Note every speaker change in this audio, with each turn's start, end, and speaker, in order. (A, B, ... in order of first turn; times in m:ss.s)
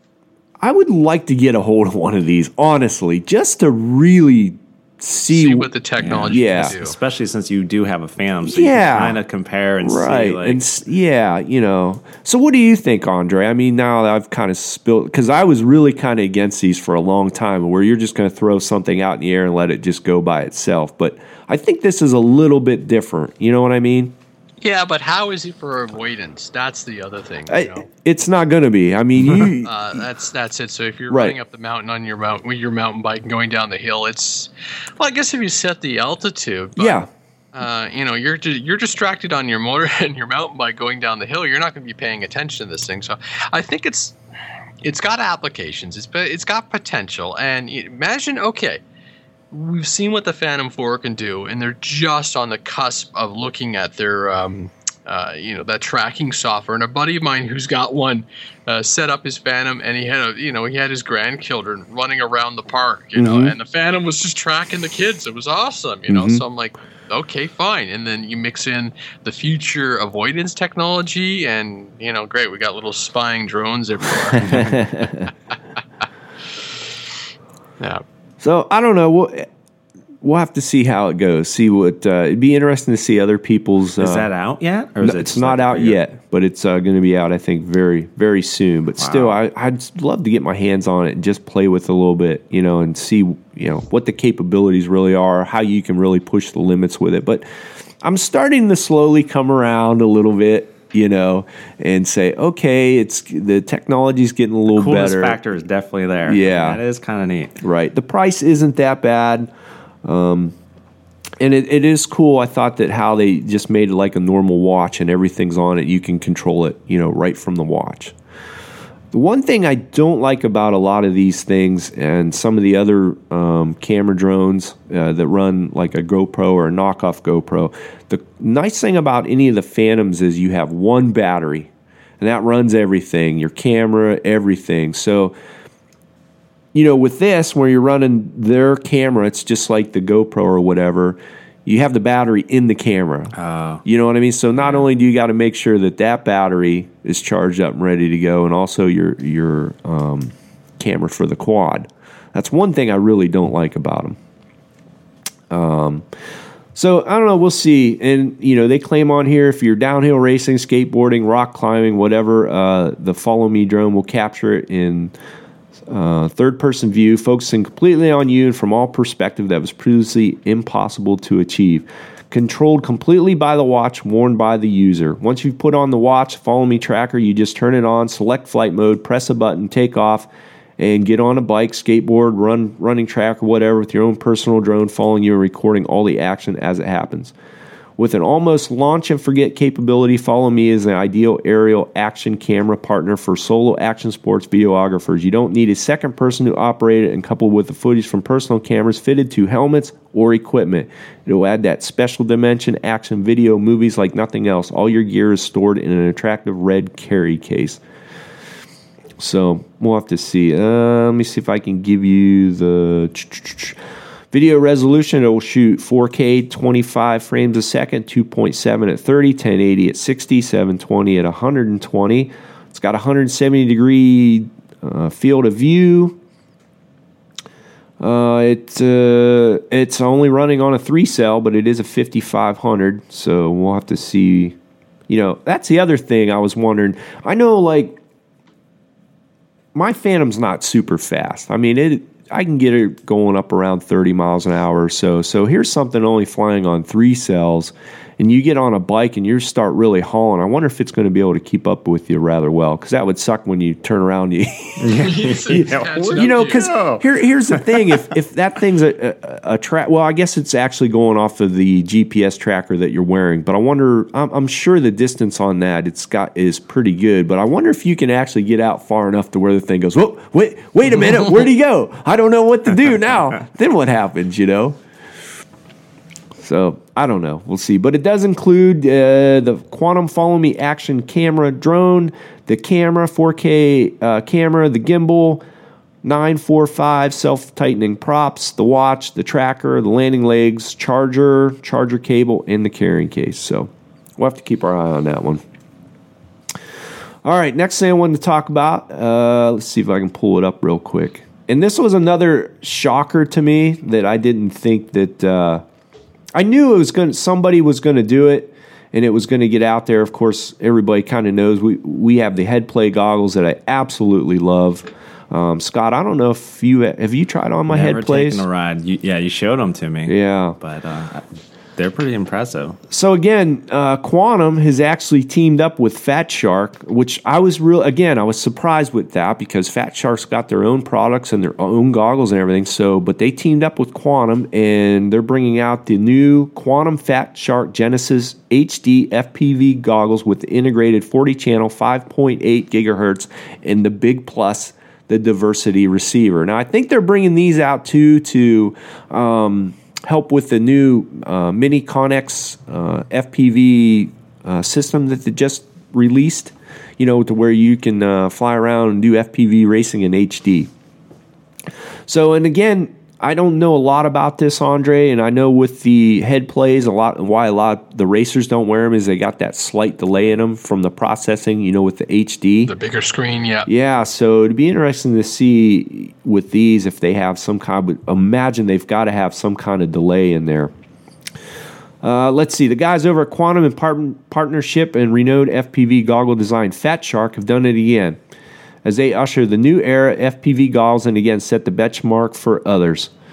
0:00.6-0:06.8 A
0:05.3-0:07.0 B
0:06.0-0:10.6 C
0:08.4-0:09.2 A
0:09.8-0:24.1 A
0:24.6-0:27.9 B
0:27.5-0:29.7 A
0:29.6-0:37.0 B
0:31.1-0:31.4 A
0:36.8-0:37.1 A
0:37.6-0:44.2 B
0:44.8-0:48.8 B
0:49.5-1:14.8 B
1:03.2-1:03.6 A
1:06.1-1:06.4 A
1:14.3-1:15.3 A
1:18.4-1:19.5 A
1:20.2-1:24.3 A
1:24.0-1:26.0 C
1:25.0-1:37.4 A
1:29.0-1:29.4 C
1:38.0-1:45.4 A
1:44.7-1:47.5 C
1:46.3-1:46.8 A
1:47.6-1:49.5 A
1:50.0-1:50.6 A
1:51.4-1:58.2 A
1:59.1-2:15.3 A
2:16.7-2:23.3 A
2:23.4-2:23.8 C
2:23.8-2:34.2 A
2:35.5-2:36.0 A
2:36.8-2:45.1 A
2:45.9-3:07.3 A
3:08.0-3:27.8 A
3:29.2-3:33.8 A
3:34.3-3:46.2 A
3:48.0-3:54.6 A
3:55.1-3:58.0 A
3:59.7-4:34.8 A
4:14.8-4:18.0 C
4:15.0-4:16.6 B
4:36.4-4:45.4 A
4:46.0-4:55.4 A
4:57.2-5:05.6 A
5:06.4-5:18.5 A
5:17.7-5:21.2 C
5:20.1-5:20.6 A
5:21.8-5:22.8 C
5:22.9-6:00.7 A
6:02.1-6:12.7 A
6:12.7-6:13.7 B
6:13.7-6:20.7 A
6:22.0-6:28.2 A
6:28.8-6:33.1 A